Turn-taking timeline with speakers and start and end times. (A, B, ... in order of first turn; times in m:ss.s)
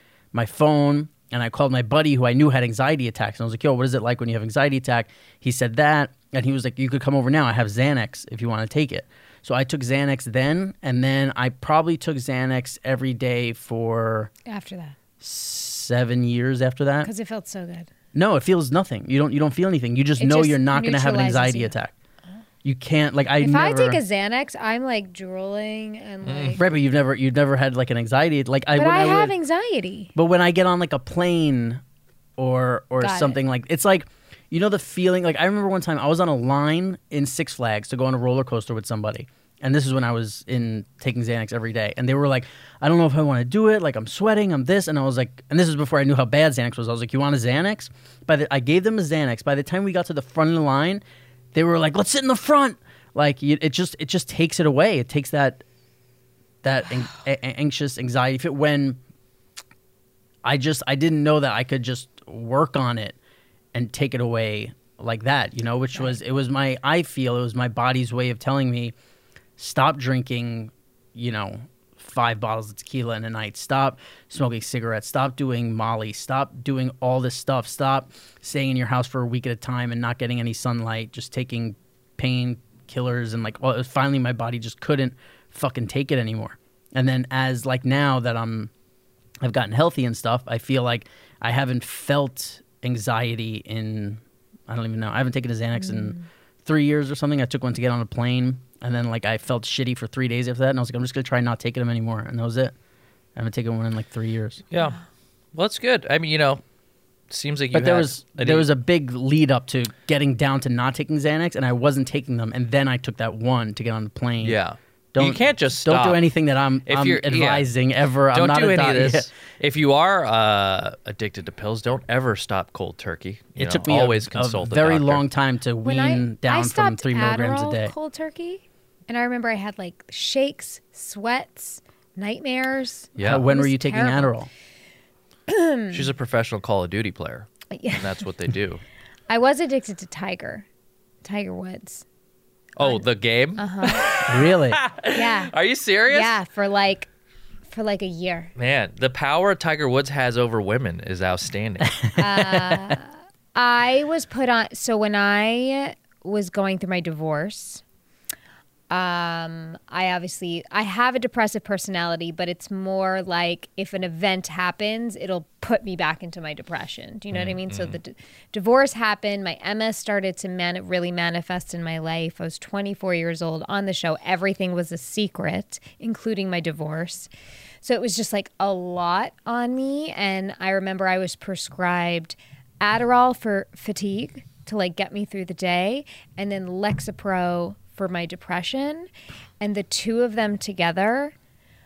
0:00.3-0:14.3 A
0:14.4-0:14.9 B
0:15.2-0:17.1 A
0:17.0-0:17.9 B
0:18.1-0:21.9 A
0:20.2-0:21.7 B
0:22.6-0:24.0 A
0:23.4-0:26.6 B
0:26.3-0:26.6 C
0:26.6-0:29.3 A
0:28.8-0:30.1 B
0:30.1-0:31.8 A
0:32.4-0:51.0 A
0:33.0-0:33.4 B
0:51.5-0:55.6 A
0:56.6-0:59.0 A
1:00.4-1:03.2 A
1:03.7-1:08.9 A
1:09.6-1:28.7 A
1:29.4-1:42.7 A
1:35.9-1:36.2 B
1:43.4-1:44.6 A
1:44.7-1:45.0 C
1:45.5-1:46.6 C
1:47.3-1:48.7 C
1:47.7-1:54.6 A
1:54.4-1:56.2 C
1:55.1-1:59.3 A
1:56.9-1:57.7 C
1:58.3-2:05.2 C
2:03.6-2:07.9 A
2:05.8-2:14.4 B
2:13.2-2:13.4 C
2:13.2-2:14.5 A
2:15.5-2:16.1 B
2:15.9-2:18.8 C
2:17.7-2:18.1 B
2:19.3-2:20.6 B
2:21.2-2:22.0 B
2:22.8-2:26.4 C
2:23.6-2:24.2 B
2:24.3-2:24.8 A
2:25.1-2:25.5 B
2:26.1-2:27.1 B
2:27.7-2:28.5 B
2:28.6-2:32.0 C
2:32.2-2:37.8 B
2:38.9-2:57.3 B
2:47.3-2:48.0 C
2:57.8-3:09.1 B
3:09.6-3:11.3 B